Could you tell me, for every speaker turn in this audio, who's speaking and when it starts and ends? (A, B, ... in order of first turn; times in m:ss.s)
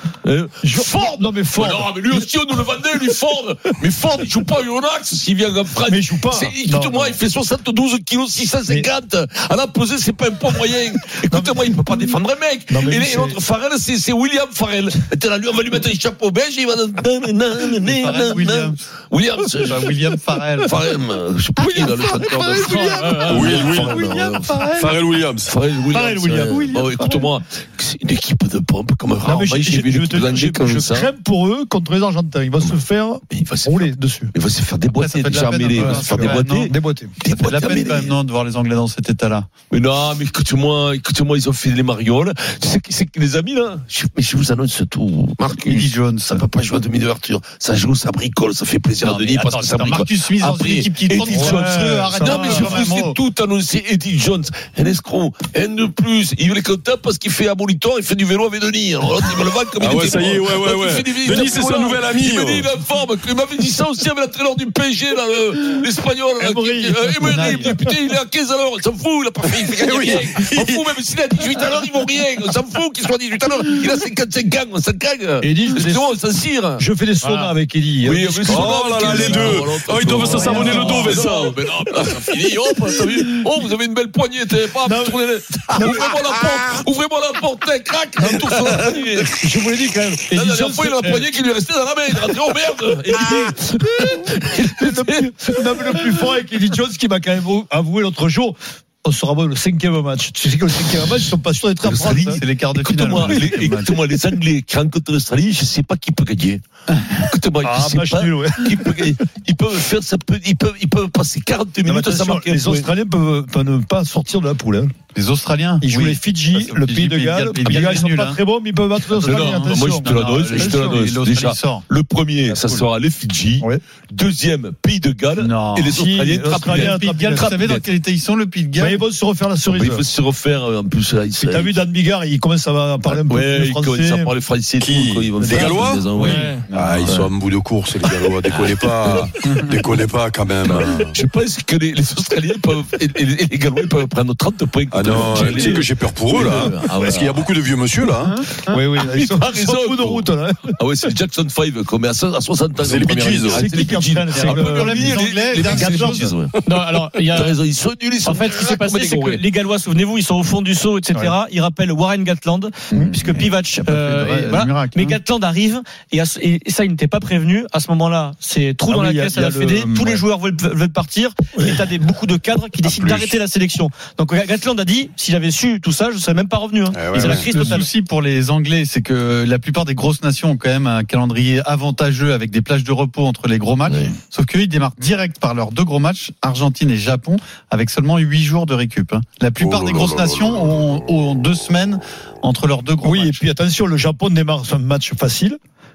0:00.2-0:19.9 A
0:00.6-0:02.4 B
0:05.8-0:07.2 B
0:11.1-0:12.1 B
0:12.7-0:13.4 B
0:17.9-0:18.8 C
0:19.6-0:20.8 C
0:20.6-0:24.8 A
0:21.8-0:25.0 C
0:22.7-0:23.6 D
0:23.3-0:24.0 E
0:24.8-0:25.5 E
0:25.4-0:31.1 A
0:25.9-0:27.3 C
0:26.4-0:26.9 B
0:29.2-0:34.3 B
0:33.3-0:38.1 A
0:34.9-0:36.7 C
0:35.8-0:37.1 B
0:37.3-0:39.5 C
0:39.7-1:16.8 A
0:45.6-0:46.5 C
0:49.0-0:53.2 C
0:59.8-1:02.7 E
1:06.4-1:08.0 B
1:07.2-1:07.8 C
1:15.4-1:16.1 B
1:16.8-1:19.6 B
1:18.0-1:29.5 A
1:18.4-1:22.2 E
1:20.4-1:21.0 B
1:24.8-1:25.2 B
1:25.7-1:26.1 B
1:28.2-1:31.2 B
1:30.2-1:36.2 A
1:34.0-1:42.4 B
1:41.8-1:52.9 A
1:42.2-1:44.0 C
1:47.6-1:49.1 B
1:51.8-1:54.9 B
1:55.1-1:58.4 C
1:55.8-2:01.1 B
1:59.1-2:07.8 A
1:59.2-2:01.9 C
2:02.5-2:02.8 C
2:05.4-2:05.9 C
2:05.8-2:07.6 B
2:06.7-2:09.0 C
2:08.8-2:10.0 B
2:09.7-2:11.8 A
2:11.4-2:14.3 B
2:13.0-2:17.3 A
2:14.8-2:21.2 E
2:15.4-2:16.6 B
2:16.2-2:16.7 D
2:16.7-2:17.0 C
2:19.0-2:19.3 A
2:19.4-2:19.7 C
2:20.6-2:27.5 A
2:24.9-2:28.3 E
2:28.2-2:28.8 C
2:28.7-2:30.8 B
2:29.0-2:36.6 A
2:32.8-2:33.7 E
2:33.5-2:36.3 B
2:34.3-2:36.3 C
2:36.6-2:37.6 D
2:37.3-2:39.4 A
2:38.2-2:57.9 D
2:42.9-2:45.2 C
2:48.9-2:50.2 B
2:52.8-2:53.3 E
2:56.9-2:57.7 E
2:57.1-3:13.4 C
3:03.9-3:04.1 A
3:09.6-3:10.8 E
3:13.0-3:15.6 B